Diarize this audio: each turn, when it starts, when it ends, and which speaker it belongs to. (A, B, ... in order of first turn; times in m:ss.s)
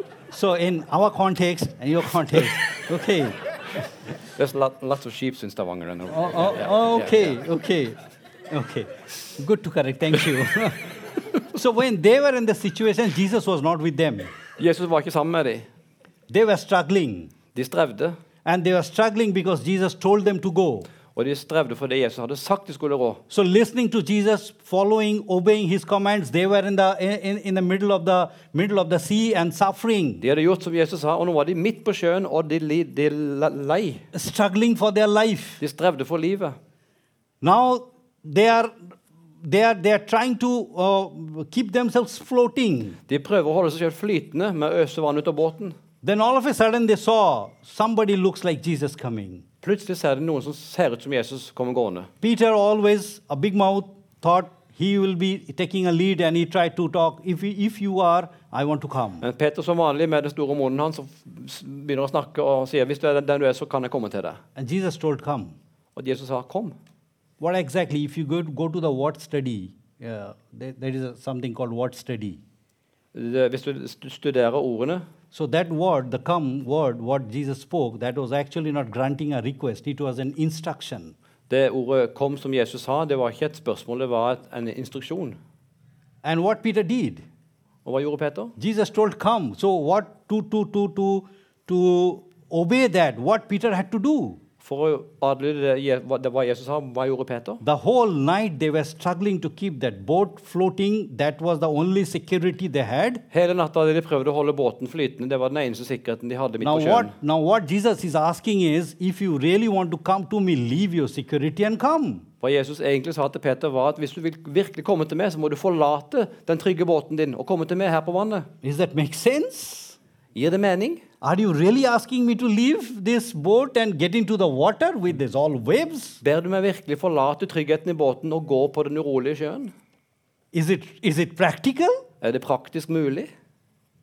0:00.3-0:03.4 A
0:04.4-0:07.4 B
0:06.1-0:08.0 A
0:08.5-0:10.9 A
0:11.5-0:14.3 A
0:14.6-0:15.7 B
0:16.3-0:17.3 A
0:17.6-0:18.2 B
0:18.4-0:20.9 A
0:21.2-0:23.2 B
0:23.3-0:30.2 A
0:30.2-0:34.0 B
0:34.1-0:35.6 A
0:35.6-0:36.6 B
0:37.4-0:38.7 A
0:39.4-0:43.0 A
0:43.1-0:45.8 B
0:46.0-0:49.4 A
0:49.6-0:52.1 B
0:52.2-0:59.2 A
0:59.2-1:04.4 B
1:04.6-1:05.6 A
1:06.0-1:06.8 B
1:07.4-1:12.4 A
1:13.1-1:15.0 B
1:15.3-1:21.1 A
1:21.5-1:25.4 B
1:26.2-1:27.2 A
1:27.8-1:28.5 B
1:28.6-1:34.4 A
1:34.6-1:37.6 B
1:37.6-1:43.2 A
1:43.3-1:47.1 B
1:46.6-1:52.2 A
1:52.4-1:58.5 B
1:58.6-2:00.0 A
2:00.4-2:01.0 B
2:01.2-2:06.2 A
2:06.2-2:09.7 B
2:10.5-2:12.0 A
2:12.2-2:13.3 B